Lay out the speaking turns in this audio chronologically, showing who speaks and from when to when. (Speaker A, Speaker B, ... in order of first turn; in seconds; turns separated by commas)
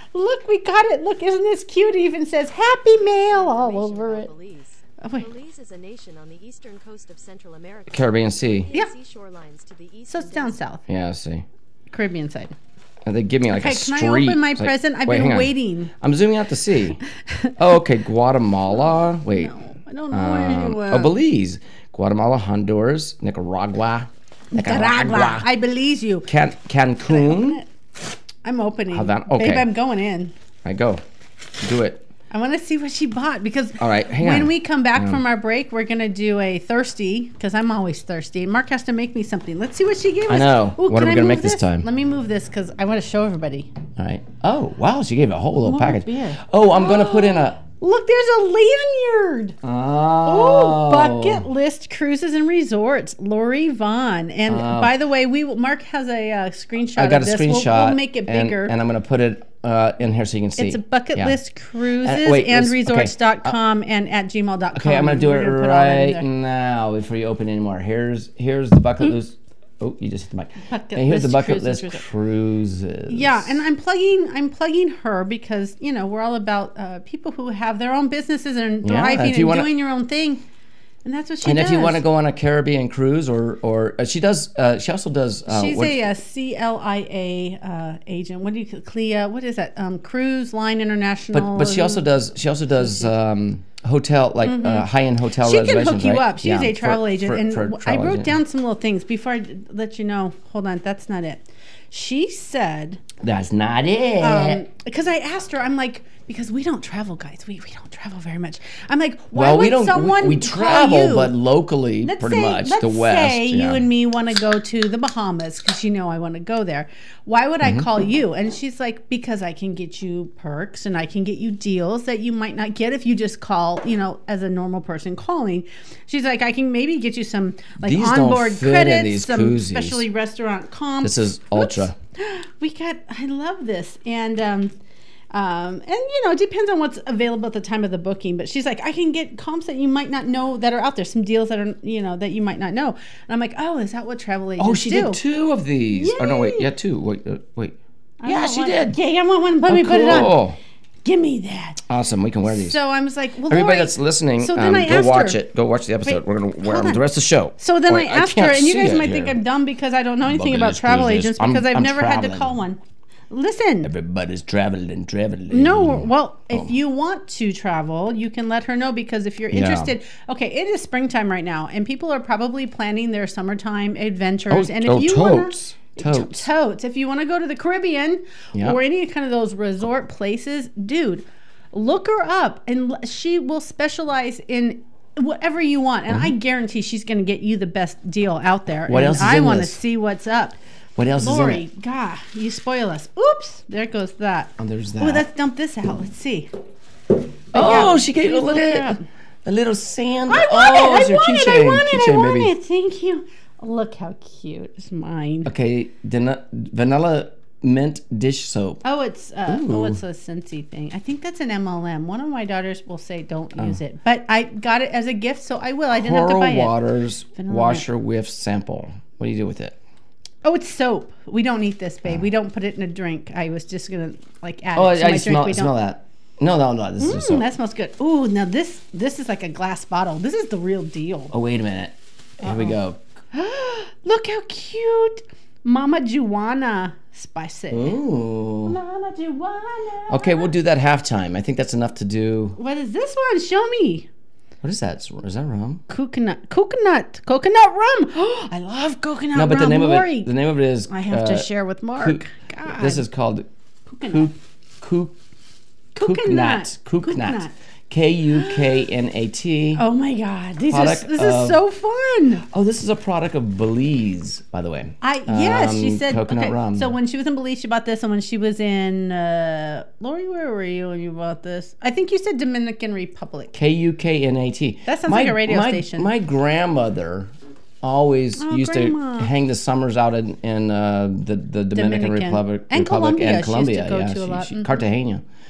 Speaker A: 0.1-4.3, Speaker B: 2.9-10.7, Speaker A: 5.0-5.3, Speaker C: 7.9-8.7, Speaker A: 10.1-10.8, Speaker C: 10.9-11.4, Speaker A: 11.9-12.6, Speaker C: 13.1-17.0, Speaker A: 13.5-15.9, Speaker C: 17.6-19.5, Speaker A: 19.3-21.1, Speaker C: 20.1-25.5, Speaker A: 24.5-26.3, Speaker C: 26.3-27.6, Speaker A: 27.1-27.7, Speaker A: 28.4-30.3, Speaker C: 28.9-29.7, Speaker C: 30.6-31.0, Speaker C: 31.6-32.0, Speaker A: 32.3-43.7, Speaker C: 33.8-35.2, Speaker C: 40.3-41.9, Speaker C: 44.0-47.6, Speaker A: 45.6-49.6, Speaker C: 49.6-51.5, Speaker A: 50.2-58.8, Speaker C: 54.5-54.9, Speaker C: 57.0-61.4, Speaker A: 60.6-66.3, Speaker C: 62.0-63.6, Speaker C: 64.7-73.6, Speaker A: 70.7-72.0, Speaker A: 73.1-80.4, Speaker C: 78.8-79.7, Speaker A: 81.0-82.0, Speaker C: 81.4-86.0, Speaker A: 85.5-92.1, Speaker C: 91.3-98.4, Speaker A: 92.8-93.1, Speaker A: 94.4-94.9, Speaker A: 95.4-103.0, Speaker C: 103.2-104.6, Speaker A: 104.2-111.3, Speaker C: 109.3-113.8, Speaker A: 112.0-134.7, Speaker C: 117.6-117.9, Speaker C: 127.8-130.0, Speaker C: 131.0-132.0, Speaker A: 135.3-145.2, Speaker C: 144.6-149.0, Speaker A: 145.9-146.7, Speaker A: 148.2-150.4, Speaker C: 149.7-150.6, Speaker A: 151.0-151.8, Speaker C: 151.9-152.8, Speaker A: 152.5-155.4, Speaker C: 153.5-159.4, Speaker A: 156.1-157.0, Speaker A: 157.6-162.8, Speaker C: 160.3-162.6, Speaker A: 163.3-163.9, Speaker C: 163.8-166.7, Speaker A: 165.5-190.6, Speaker C: 169.5-169.9, Speaker C: 174.5-176.5, Speaker C: 178.5-178.8, Speaker C: 186.1-186.3, Speaker C: 188.9-189.8, Speaker C: 191.0-191.6, Speaker A: 191.2-196.5, Speaker C: 194.6-195.3, Speaker A: 197.5-199.1, Speaker C: 197.5-202.5, Speaker A: 200.3-205.5, Speaker C: 205.4-208.8, Speaker A: 208.8-216.8, Speaker C: 209.5-210.0, Speaker C: 215.9-219.8, Speaker A: 217.4-217.9, Speaker A: 220.4-225.7, Speaker C: 224.8-227.4, Speaker A: 227.0-231.3, Speaker C: 231.3-233.0, Speaker A: 232.4-232.8, Speaker A: 233.3-238.0, Speaker C: 237.7-238.8, Speaker A: 238.6-240.5, Speaker C: 240.1-242.6, Speaker A: 242.6-244.1, Speaker C: 244.6-245.8, Speaker A: 245.9-250.3, Speaker C: 249.3-253.5, Speaker A: 250.9-253.0, Speaker A: 253.9-254.3, Speaker C: 254.1-255.2, Speaker A: 255.9-257.5, Speaker C: 256.0-259.8, Speaker A: 258.4-258.8, Speaker A: 259.8-262.4, Speaker C: 260.7-261.6, Speaker C: 262.5-266.9, Speaker A: 265.0-273.5, Speaker C: 273.5-277.3, Speaker A: 274.9-276.1, Speaker C: 277.8-285.2, Speaker A: 278.4-279.3, Speaker A: 281.7-284.8